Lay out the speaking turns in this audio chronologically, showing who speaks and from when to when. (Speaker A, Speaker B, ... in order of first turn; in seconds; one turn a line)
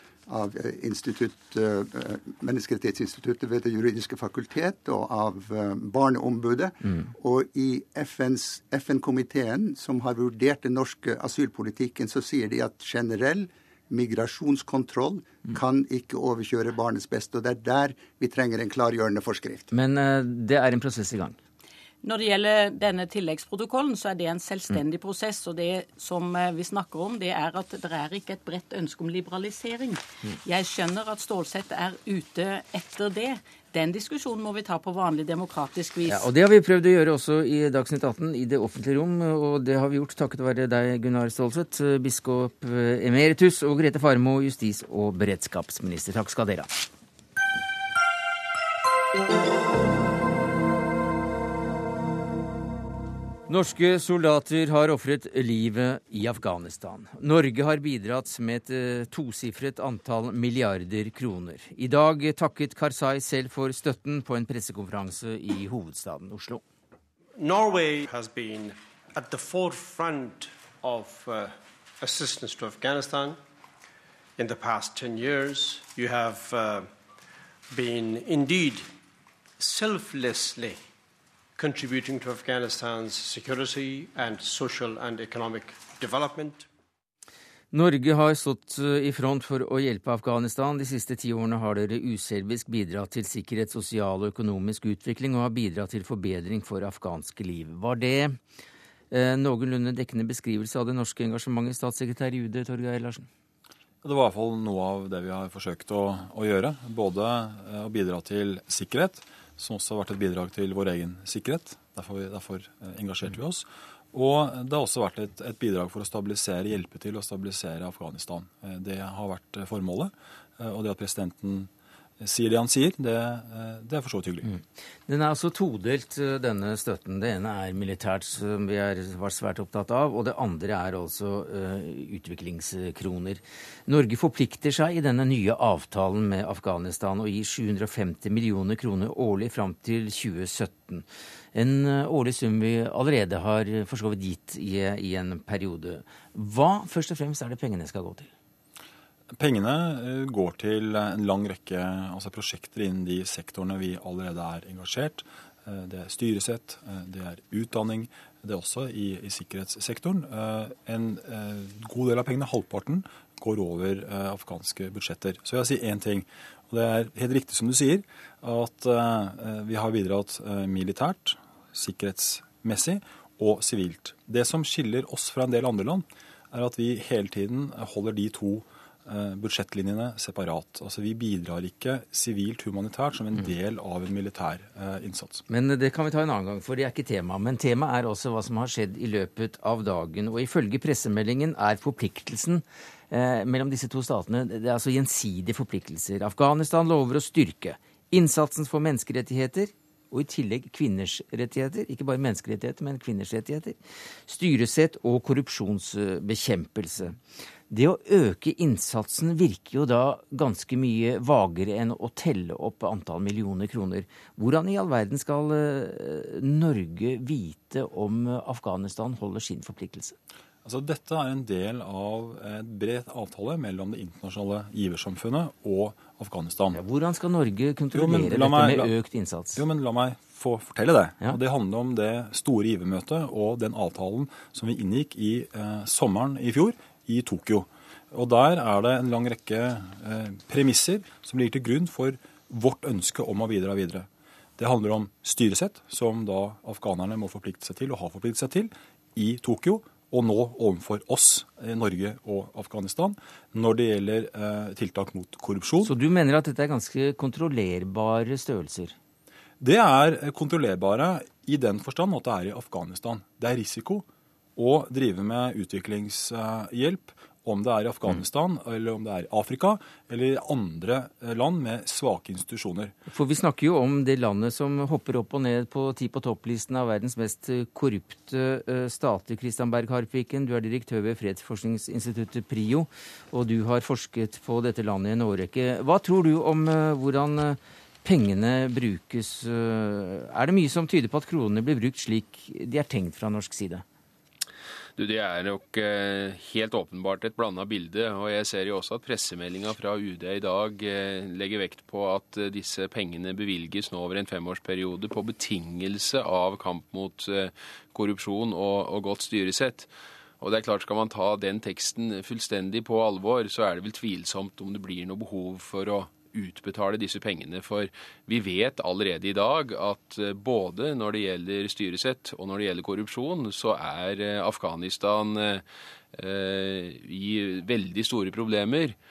Speaker A: 0.3-19.7
Speaker B: 19.7-21.4
Speaker C: 22.0-36.3
Speaker B: 36.0-46.8
Speaker B: 53.5-66.6
Speaker D: 67.4-73.4
Speaker D: 74.4-76.9
Speaker D: 77.7-78.9
Speaker D: 79.6-80.8
Speaker D: 81.5-86.7
Speaker B: 87.7-98.4
Speaker B: 99.1-103.3
Speaker E: 104.0-124.5
Speaker B: 124.5-148.3
Speaker E: 149.3-185.4
Speaker B: 185.5-207.2
Speaker B: 207.7-220.2
Speaker E: 220.6-226.8
Speaker B: 226.7-229.6
Speaker E: 227.9-228.9
Speaker E: 229.6-255.9
Speaker B: 255.8-258.9
Speaker E: 259.6-272.9
Speaker B: 273.1-293.8
Speaker F: 294.9-329.0